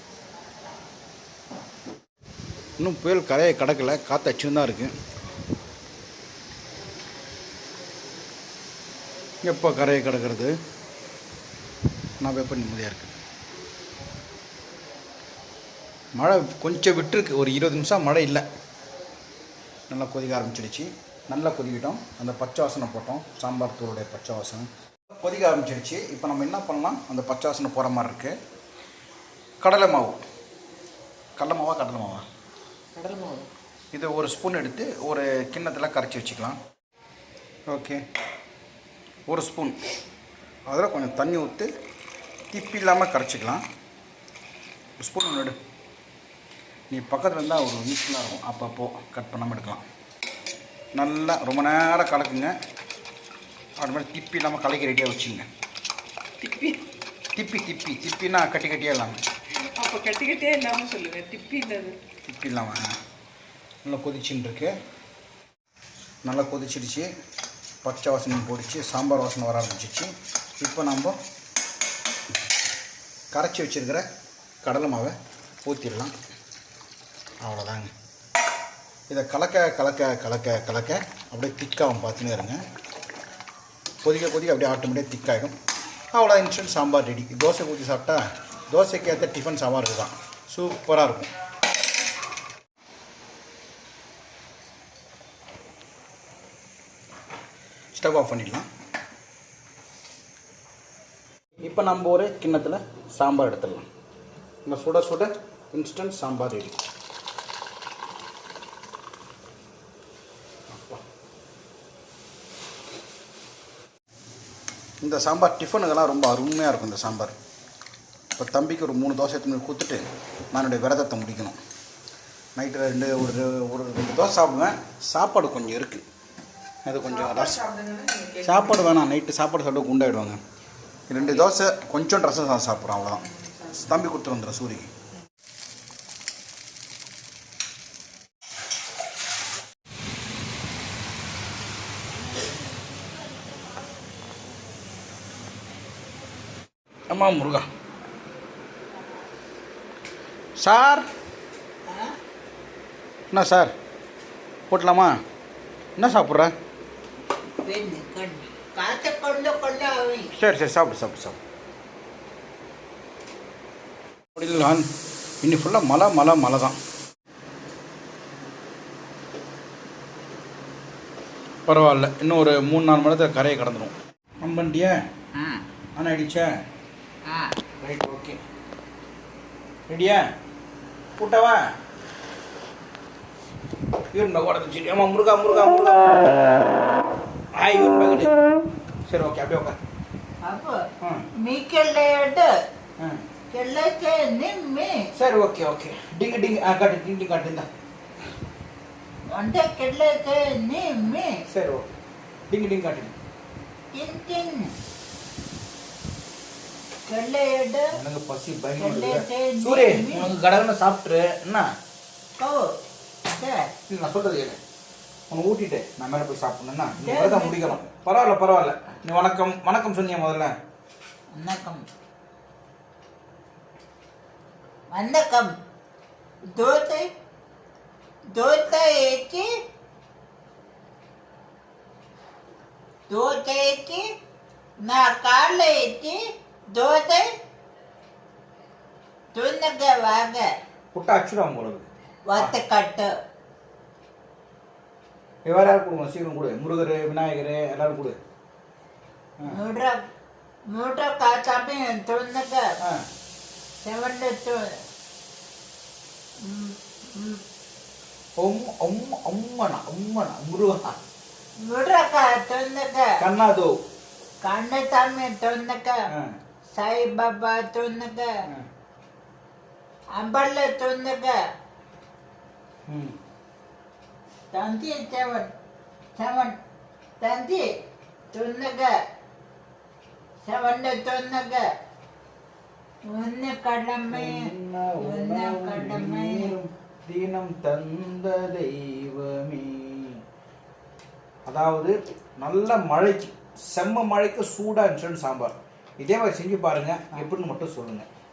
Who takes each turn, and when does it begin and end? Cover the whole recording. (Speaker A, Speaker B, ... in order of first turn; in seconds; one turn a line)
Speaker A: 2.8-4.9
Speaker A: 9.4-10.5
Speaker A: 12.2-13.1
Speaker A: 16.2-18.4
Speaker A: 19.9-28.4
Speaker A: 29.6-30.2
Speaker A: 31.4-32.2
Speaker B: 33.0-33.5
Speaker A: 33.9-36.6
Speaker A: 37.7-38.0
Speaker A: 39.3-39.8
Speaker A: 40.7-41.7
Speaker A: 42.5-43.6
Speaker A: 45.0-45.6
Speaker A: 46.9-49.8
Speaker A: 51.0-52.5
Speaker A: 53.8-55.5
Speaker B: 56.4-56.8
Speaker A: 57.4-59.2
Speaker B: 59.6-62.0
Speaker A: 62.3-63.0
Speaker A: 63.9-64.7
Speaker A: 66.2-67.1
Speaker A: 67.8-71.2
Speaker A: 73.3-74.1
Speaker A: 74.6-76.1
Speaker A: 77.4-77.9
Speaker A: 79.1-82.6
Speaker A: 84.0-85.5
Speaker A: 86.1-91.3
Speaker A: 98.0-98.7
Speaker A: 101.6-103.9
Speaker A: 104.7-106.8
Speaker A: 110.7-111.0
Speaker A: 115.0-117.3
Speaker A: 118.4-121.6
Speaker A: 122.6-126.0
Speaker A: 126.9-127.7
Speaker B: 127.2-128.5
Speaker A: 128.4-130.4
Speaker A: 131.1-134.9
Speaker A: 147.1-147.7
Speaker A: 150.6-151.1
Speaker C: 151.9-152.2
Speaker A: 153.3-153.7
Speaker A: 154.7-155.2
Speaker A: 156.0-156.5
Speaker C: 157.6-160.3
Speaker A: 160.3-161.4
Speaker A: 164.4-164.9
Speaker A: 165.4-166.8
Speaker A: 171.7-175.0
Speaker C: 175.4-175.6
Speaker A: 176.0-176.6
Speaker C: 177.3-177.6
Speaker A: 177.8-178.4
Speaker A: 179.9-180.3
Speaker A: 181.2-181.7
Speaker A: 184.1-186.3
Speaker A: 187.6-188.4
Speaker A: 189.1-189.8
Speaker C: 190.4-190.8
Speaker A: 191.0-191.3
Speaker C: 191.4-192.5
Speaker C: 193.5-195.1
Speaker A: 195.1-197.7
Speaker C: 199.3-201.4
Speaker A: 201.5-201.9
Speaker A: 202.5-203.2
Speaker C: 203.9-204.7
Speaker C: 207.1-207.9
Speaker A: 207.9-211.7
Speaker C: 208.8-210.3
Speaker C: 212.4-212.8
Speaker C: 213.3-213.7
Speaker A: 213.9-214.6
Speaker A: 215.3-220.6
Speaker C: 217.0-217.8
Speaker C: 221.3-221.8
Speaker C: 224.9-225.5
Speaker C: 226.6-227.1
Speaker C: 228.3-229.5
Speaker C: 233.1-234.0
Speaker C: 234.8-236.2
Speaker C: 236.7-237.3
Speaker C: 239.3-240.5
Speaker A: 240.9-242.6
Speaker C: 242.3-243.1
Speaker A: 245.4-248.2
Speaker C: 249.4-250.0
Speaker C: 250.7-252.7
Speaker C: 253.8-254.8
Speaker C: 256.4-257.4
Speaker A: 258.4-261.0
Speaker C: 261.6-263.2
Speaker A: 263.2-263.7
Speaker C: 264.4-266.0
Speaker A: 266.1-266.4
Speaker C: 266.8-268.3
Speaker C: 270.1-271.4
Speaker A: 272.9-273.1
Speaker C: 274.5-275.5
Speaker C: 276.2-276.6
Speaker C: 277.2-277.7
Speaker C: 278.3-278.9
Speaker C: 280.5-281.6
Speaker C: 283.1-284.5
Speaker A: 284.1-290.2
Speaker C: 285.0-286.6
Speaker A: 291.5-298.1